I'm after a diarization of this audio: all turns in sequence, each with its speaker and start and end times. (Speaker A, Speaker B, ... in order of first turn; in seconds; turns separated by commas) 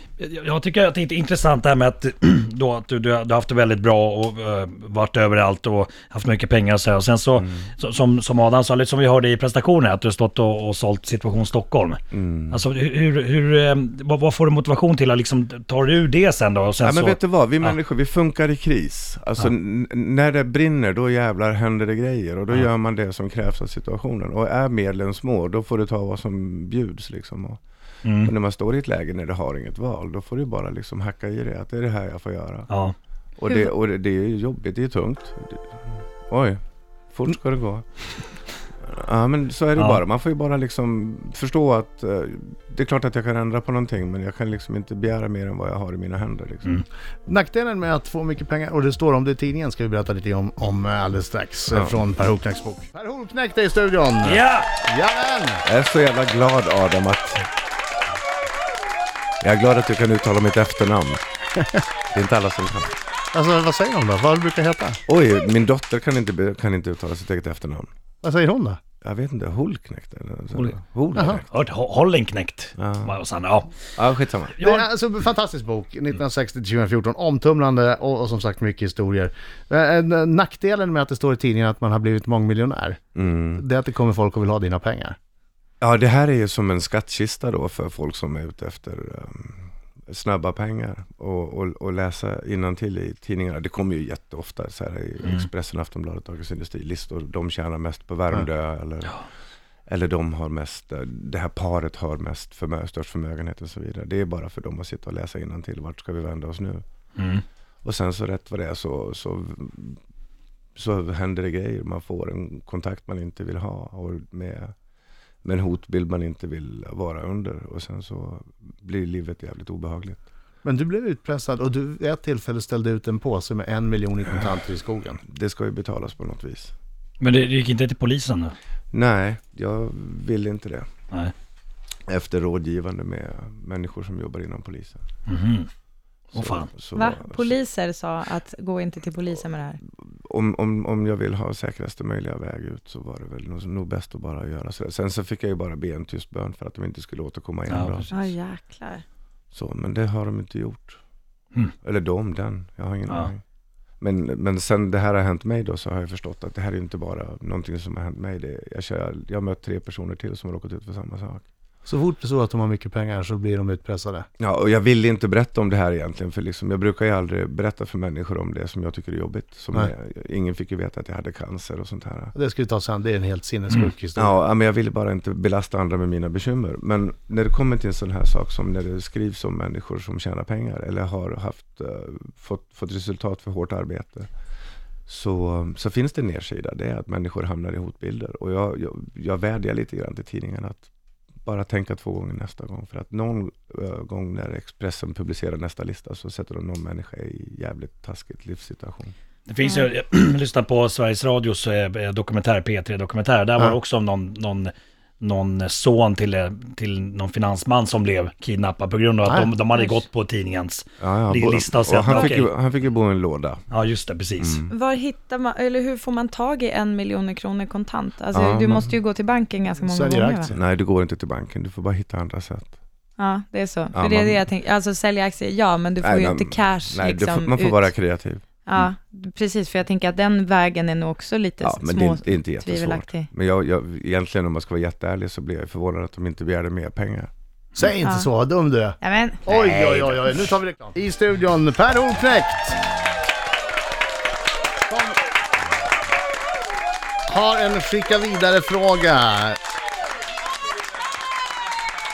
Speaker A: 0.2-17.8, Speaker B: 7.4-7.7, Speaker B: 12.1-12.6, Speaker B: 16.8-27.6, Speaker A: 28.0-28.3, Speaker B: 28.2-32.7, Speaker A: 32.7-32.9, Speaker B: 33.4-37.8, Speaker B: 38.8-46.8, Speaker C: 47.3-55.6, Speaker A: 54.2-54.7, Speaker B: 55.6-57.5, Speaker B: 59.4-61.2, Speaker B: 62.1-63.0, Speaker C: 63.3-65.0, Speaker B: 65.1-67.9, Speaker C: 68.2-68.8, Speaker B: 69.0-71.4, Speaker A: 71.4-73.7, Speaker B: 72.8-73.1, Speaker B: 74.0-74.6, Speaker A: 74.6-74.8, Speaker C: 74.6-83.0, Speaker B: 83.1-83.6, Speaker C: 83.6-85.2, Speaker B: 85.8-99.2, Speaker B: 99.9-106.8, Speaker A: 107.2-107.4, Speaker B: 107.8-110.0, Speaker B: 110.8-114.7, Speaker B: 115.4-120.2, Speaker C: 120.6-125.2, Speaker B: 125.2-126.7, Speaker A: 127.2-128.5, Speaker B: 128.9-130.9, Speaker B: 132.1-135.0, Speaker A: 135.3-135.7, Speaker A: 136.3-136.7, Speaker B: 136.3-137.6, Speaker D: 136.9-139.8, Speaker B: 140.0-148.1, Speaker A: 147.7-148.3, Speaker D: 148.1-149.0, Speaker B: 149.5-151.0, Speaker B: 151.8-153.4, Speaker B: 154.0-161.4, Speaker C: 161.8-164.2, Speaker B: 164.4-172.3, Speaker C: 172.3-174.4, Speaker B: 174.2-184.3, Speaker B: 185.1-190.9, Speaker B: 191.4-199.1, Speaker A: 199.5-212.5, Speaker C: 209.2-209.6, Speaker D: 209.7-210.0, Speaker B: 211.0-213.6, Speaker D: 212.1-212.3, Speaker A: 213.7-214.6, Speaker B: 214.4-214.7, Speaker D: 214.7-220.5, Speaker B: 218.3-218.9, Speaker C: 219.8-220.6, Speaker B: 220.5-222.7, Speaker D: 223.2-227.9, Speaker B: 223.9-224.4, Speaker B: 226.0-228.9, Speaker D: 228.6-233.3, Speaker B: 231.6-237.3, Speaker C: 237.7-242.8, Speaker D: 238.0-238.3, Speaker D: 239.0-240.2, Speaker C: 244.9-245.2, Speaker C: 247.3-249.6